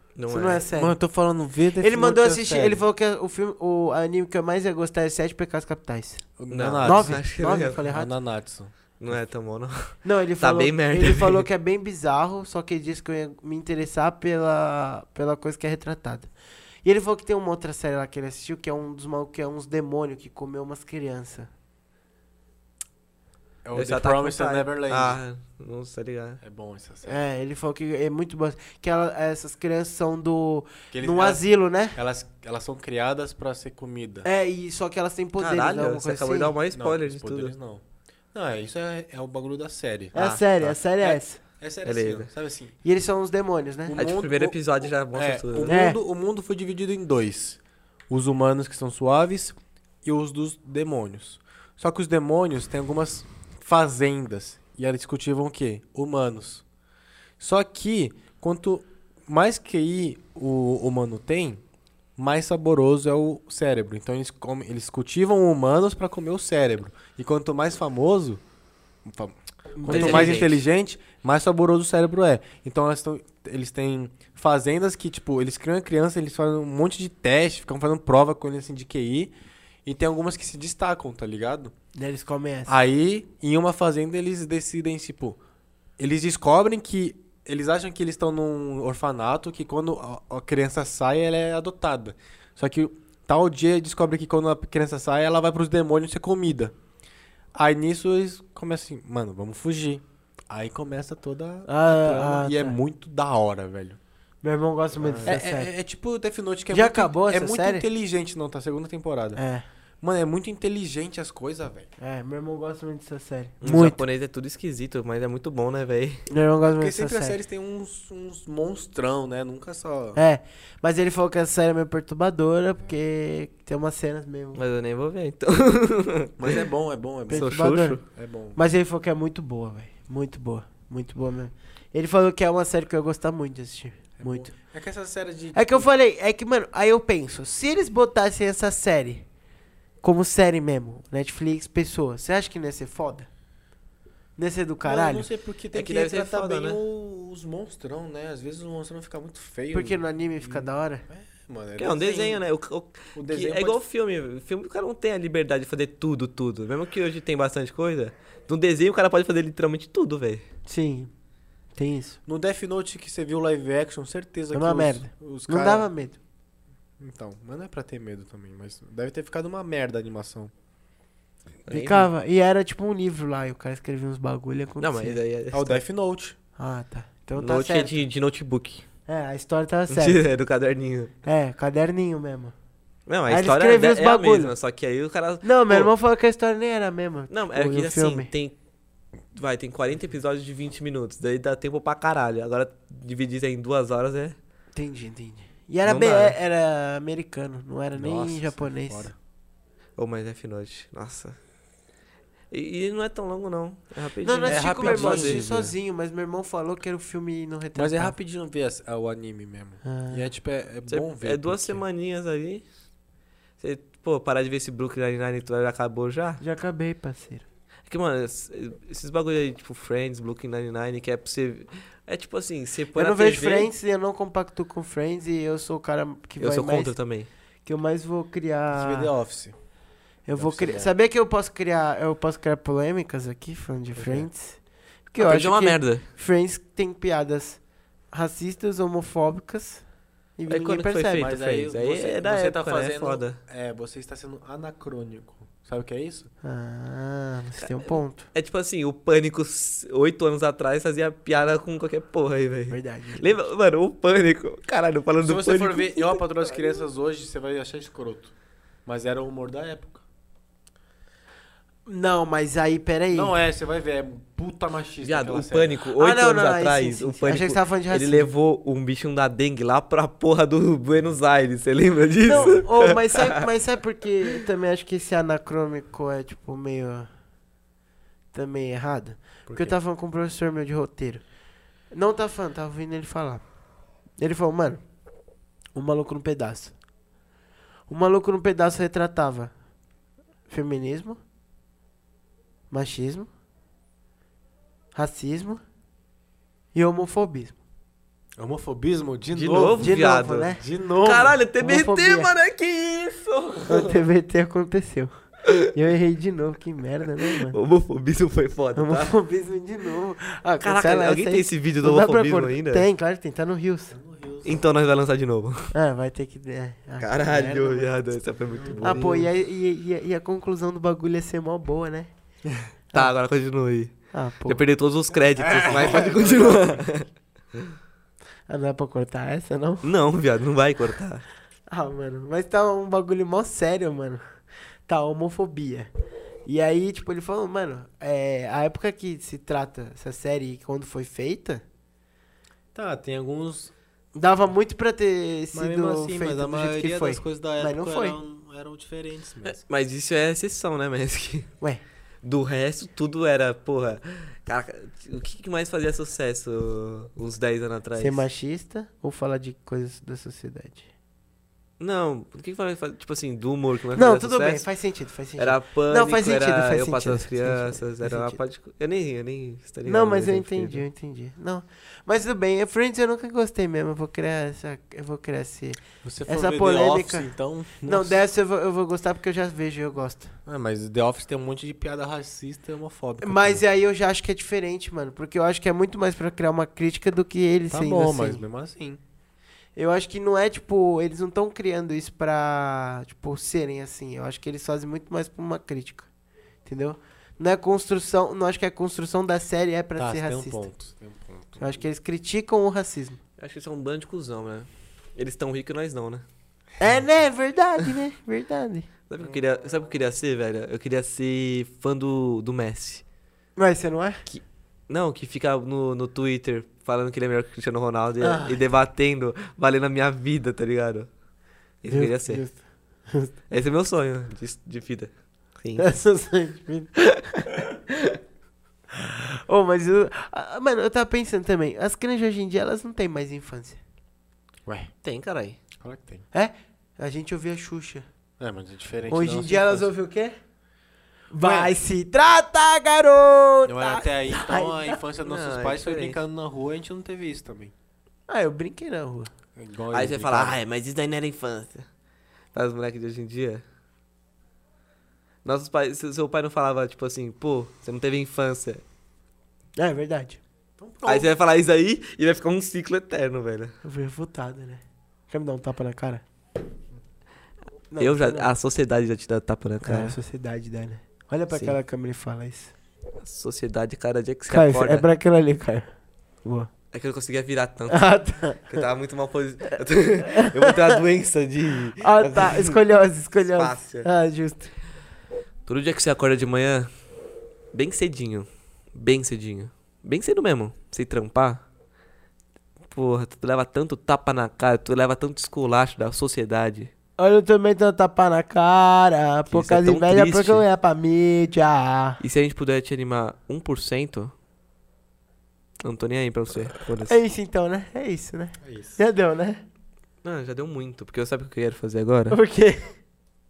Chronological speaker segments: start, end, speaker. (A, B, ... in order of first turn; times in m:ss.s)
0:00.2-0:00.6 A
0:00.3-0:01.0 B
0:00.7-0:02.8 C
0:01.8-0:06.2 B
0:06.4-0:07.2 C
0:06.5-0:07.8 A
0:06.8-0:08.1 B
0:07.8-0:08.7 C
0:09.0-0:11.5 A
0:10.0-0:16.3 B
0:16.8-0:21.5 B
0:23.6-0:25.2 C
0:23.8-0:26.4 A
0:26.4-0:27.2 C
0:27.0-0:32.0 B
0:30.9-0:34.3 C
0:34.2-0:36.6 B
0:35.4-0:37.6 A
0:36.7-0:40.2 C
0:40.1-0:41.4 B
0:40.2-0:40.8 A
0:41.0-0:42.7 C
0:41.8-0:42.3 A
0:42.8-0:44.0 B
0:43.9-0:56.6 C
0:44.0-0:45.7 A
0:45.7-0:46.0 B
0:57.4-1:01.6 C
1:02.2-1:08.4 C
1:09.0-1:21.7 C
1:09.8-1:10.4 B
1:09.9-1:10.6 A
1:22.0-1:22.8 B
1:22.7-1:25.4 C
1:26.0-1:36.8 C
1:37.6-1:44.0 C
1:41.7-1:42.8 B
1:44.4-1:45.7 B
1:45.0-1:45.4 A
1:45.2-1:49.4 C
1:46.7-1:47.8 B
1:49.4-1:49.6 B
1:50.0-1:51.9 C
1:52.0-1:54.0 B
1:53.6-1:56.2 A
1:56.3-1:57.4 B
1:56.8-2:00.2 C
2:00.2-2:04.6 B
2:04.6-2:06.7 A
2:06.4-2:08.6 C
2:07.3-2:08.0 B
2:07.3-2:08.0 A
2:08.6-2:14.5 B
2:14.2-2:15.9 C
2:15.5-2:19.2 B
2:20.0-2:23.3 B
2:24.4-2:25.3 B
2:24.8-2:32.4 C
2:25.7-2:26.8 A
2:29.7-2:31.0 B
2:31.8-2:40.4 A
2:33.2-2:33.8 C
2:40.7-2:41.1 B
2:41.8-2:42.2 B
2:42.3-2:45.9 C
2:44.5-2:46.2 B
2:47.0-2:50.5 C
2:51.7-2:52.1 A
2:51.7-2:55.2 B
2:54.8-2:55.8 A
2:55.5-2:56.4 C
2:56.6-2:58.0 B
2:57.4-2:58.8 A
2:59.1-3:00.2 B
2:59.9-3:01.1 A
3:01.2-3:02.5 B
3:03.1-3:05.9 A
3:03.3-3:04.5 B
3:05.4-3:08.3 B
3:07.3-3:08.6 A
3:09.3-3:14.4 A
3:14.8-3:19.1 B
3:15.9-3:16.4 A
3:18.0-3:19.2 C
3:20.0-3:21.4 A
3:22.5-3:25.4 A
3:24.2-3:28.2 B
3:24.4-3:25.7 C
3:27.8-3:31.8 C
3:29.8-3:30.3 B
3:30.9-3:32.6 A
3:33.6-3:36.4 A
3:36.4-3:37.4 B
3:37.9-3:43.7 A
3:43.0-3:46.9 B
3:46.4-3:47.3 A
3:47.6-3:49.1 B
3:48.7-3:49.6 C
3:50.3-3:54.6 B
3:50.3-3:50.9 C
3:54.0-3:54.3 C
3:55.1-3:57.6 B
3:55.2-3:56.1 A
3:58.1-3:59.8 B
4:00.4-4:01.3 B
4:00.5-4:03.4 A
4:01.2-4:06.3 C
4:06.4-4:08.3 B
4:07.7-4:16.2 A
4:12.7-4:13.4 B
4:15.2-4:18.3 C
4:18.9-4:20.0 C
4:21.9-4:23.4 B
4:23.1-4:25.8 C
4:25.0-4:33.5 A
4:26.0-4:28.3 B
4:32.2-4:37.1 B
4:32.3-4:32.6 C
4:38.3-4:41.2 B
4:39.5-4:39.8 C
4:41.9-4:43.4 B
4:44.2-4:44.8 B
4:45.8-4:46.8 B
4:47.9-4:49.5 B
4:50.5-4:51.2 B
4:52.7-4:53.3 B
4:55.0-4:55.6 B
4:56.7-4:57.6 B
4:58.4-5:01.4 C
4:59.3-5:04.0 A
4:59.8-5:00.6 B
5:01.6-5:02.3 B
5:03.7-5:05.1 B
5:05.7-5:07.6 B
5:07.4-5:09.1 A
5:08.8-5:14.0 B
5:10.6-5:12.9 A
5:13.9-5:14.6 C
5:14.4-5:15.7 A
5:15.7-5:17.9 B
5:17.0-5:19.3 A
5:18.6-5:19.1 C
5:18.8-5:22.1 B
5:22.9-5:23.9 A
5:24.1-5:24.6 B
5:24.5-5:27.6 A
5:25.4-5:26.8 C
5:28.5-5:29.9 B
5:29.8-5:31.2 A
5:31.7-5:34.2 B
5:34.9-5:35.9 B
5:36.5-5:41.6 B
5:42.7-5:43.7 C
5:44.1-5:48.2 B
5:45.5-5:49.6 C
5:49.5-5:51.5 A
5:52.2-5:58.2 A
5:58.0-6:00.9 B
6:01.8-6:04.7 A
6:04.0-6:08.4 B
6:05.4-6:10.8 A
6:09.8-6:17.3 B
6:16.0-6:18.2 C
6:17.8-6:20.4 B
6:20.5-6:23.6 C
6:23.2-6:28.4 B
6:27.7-6:29.0 C
6:29.8-6:36.1 B
6:36.7-6:40.6 B
6:40.0-6:41.9 C
6:41.6-6:43.2 B
6:43.4-6:46.2 A
6:46.8-6:48.9 B
6:49.1-6:53.0 A
6:53.6-6:54.2 B
6:54.3-7:01.1 A
6:58.2-6:58.6 B
7:01.8-7:02.4 A
7:01.9-7:03.3 B
7:03.5-7:05.9 A
7:05.8-7:06.9 B
7:07.0-7:07.5 A
7:09.0-7:13.8 B
7:14.7-7:14.9 C
7:15.0-7:15.6 A
7:15.8-7:16.2 C
7:16.3-7:18.1 B
7:18.4-7:19.9 C
7:19.1-7:20.4 B
7:21.3-7:25.0 B
7:21.4-7:21.7 C
7:23.7-7:27.7 C
7:25.2-7:26.2 A
7:28.3-7:29.3 B
7:29.6-7:30.6 C
7:29.9-7:31.9 A
7:32.5-7:33.6 A
7:35.4-7:38.8 A
7:39.8-7:40.4 B
7:40.8-7:41.3 C
7:41.1-7:43.8 A
7:43.8-7:46.2 B
7:47.9-7:48.5 B
7:48.0-7:50.2 A
7:49.8-7:52.7 B
7:51.5-7:51.8 A
7:53.2-7:55.1 A
7:54.5-7:55.9 B
7:56.4-7:56.7 B
7:56.9-7:58.0 A
7:57.9-7:58.8 B
7:58.7-8:02.8 A
8:00.2-8:01.0 B
8:02.0-8:04.7 B
8:03.5-8:04.1 A
8:05.7-8:06.9 A
8:07.7-8:11.6 A
8:12.9-8:16.9 A
8:17.2-8:22.2 B
8:19.5-8:20.6 A
8:22.2-8:24.3 A
8:25.8-8:27.2 A
8:27.0-8:29.6 B
8:28.6-8:29.0 C
8:30.2-8:32.4 A
8:32.3-8:32.9 B